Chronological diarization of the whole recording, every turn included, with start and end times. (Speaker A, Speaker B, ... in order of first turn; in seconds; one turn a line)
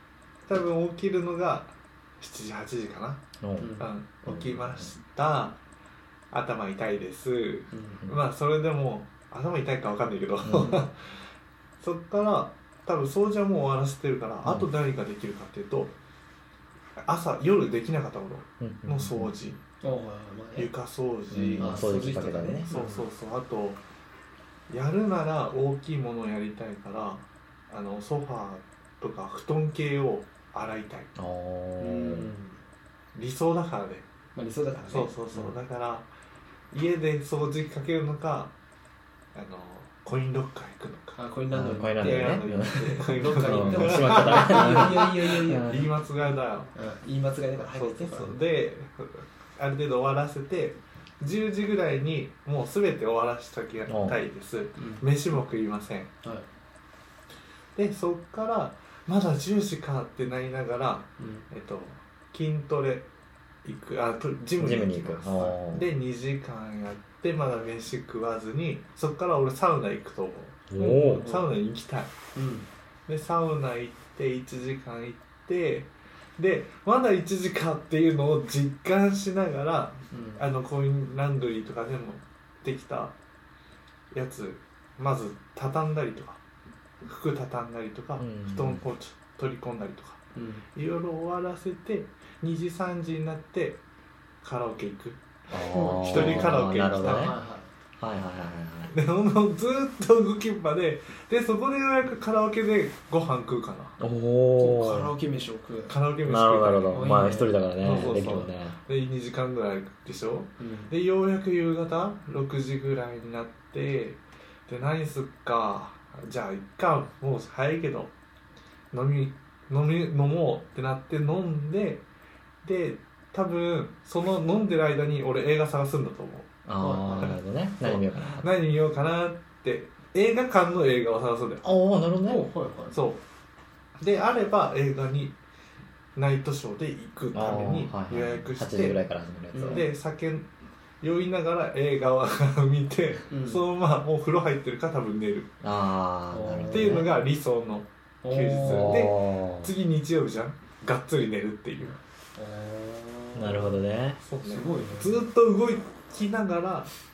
Speaker A: 0.5-3.2
Speaker B: 3.4-4.8
Speaker C: 3.6-3.9
Speaker A: 3.8-5.6
Speaker A: 6.3-11.2
Speaker C: 7.7-8.1
Speaker B: 10.4-10.8
Speaker A: 11.8-15.9
Speaker B: 14.4-14.7
Speaker A: 17.0-19.6
Speaker B: 18.6-19.3
Speaker C: 19.8-20.7
Speaker A: 20.6-21.9
Speaker B: 21.3-22.7
Speaker C: 21.6-23.0
Speaker A: 22.7-23.8
Speaker A: 24.7-31.1
Speaker B: 31.1-32.3
Speaker C: 31.8-32.6
Speaker A: 33.1-34.0
Speaker C: 34.3-35.5
Speaker A: 34.9-36.0
Speaker A: 36.7-38.5
Speaker A: 39.3-41.2
Speaker C: 41.1-45.7
Speaker B: 41.5-45.9
Speaker A: 42.0-46.7
Speaker C: 46.7-48.4
Speaker A: 47.7-56.1
Speaker B: 53.9-54.1
Speaker C: 54.8-55.0
Speaker A: 57.8-63.1
Speaker C: 61.2-61.5
Speaker A: 63.6-72.1
Speaker B: 64.6-65.9
Speaker B: 70.7-71.3
Speaker C: 70.8-71.5
Speaker C: 72.3-72.7
Speaker A: 73.1-83.1
Speaker C: 80.1-80.4
Speaker A: 84.1-86.4
Speaker A: 87.0-90.2
Speaker B: 88.2-88.8
Speaker C: 90.3-90.6
Speaker A: 90.7-93.8
Speaker A: 94.4-95.2
Speaker B: 95.5-97.3
Speaker C: 95.7-97.7
Speaker A: 95.9-97.3
Speaker B: 98.0-98.9
Speaker A: 98.9-104.0
Speaker B: 104.0-105.1
Speaker C: 104.6-106.0
Speaker A: 105.9-107.1
Speaker B: 106.2-108.8
Speaker C: 106.9-107.6
Speaker A: 107.8-118.1
Speaker C: 110.6-110.9
Speaker A: 118.9-122.0
Speaker A: 122.6-126.6
Speaker B: 126.7-128.5
Speaker C: 126.8-127.4
Speaker A: 127.2-131.7
Speaker B: 131.6-132.5
Speaker C: 132.2-133.0
Speaker A: 132.9-133.2
Speaker A: 134.0-135.3
Speaker A: 136.2-139.0
Speaker B: 137.3-139.8
Speaker C: 139.5-139.8
Speaker A: 139.6-140.5
Speaker A: 141.0-145.5
Speaker C: 143.3-143.6
Speaker B: 145.6-147.1
Speaker C: 146.3-147.0
Speaker A: 146.7-152.0
Speaker C: 148.2-149.1
Speaker B: 148.6-149.7
Speaker C: 152.3-153.7
Speaker B: 153.3-154.2
Speaker A: 154.2-156.9
Speaker C: 154.4-155.3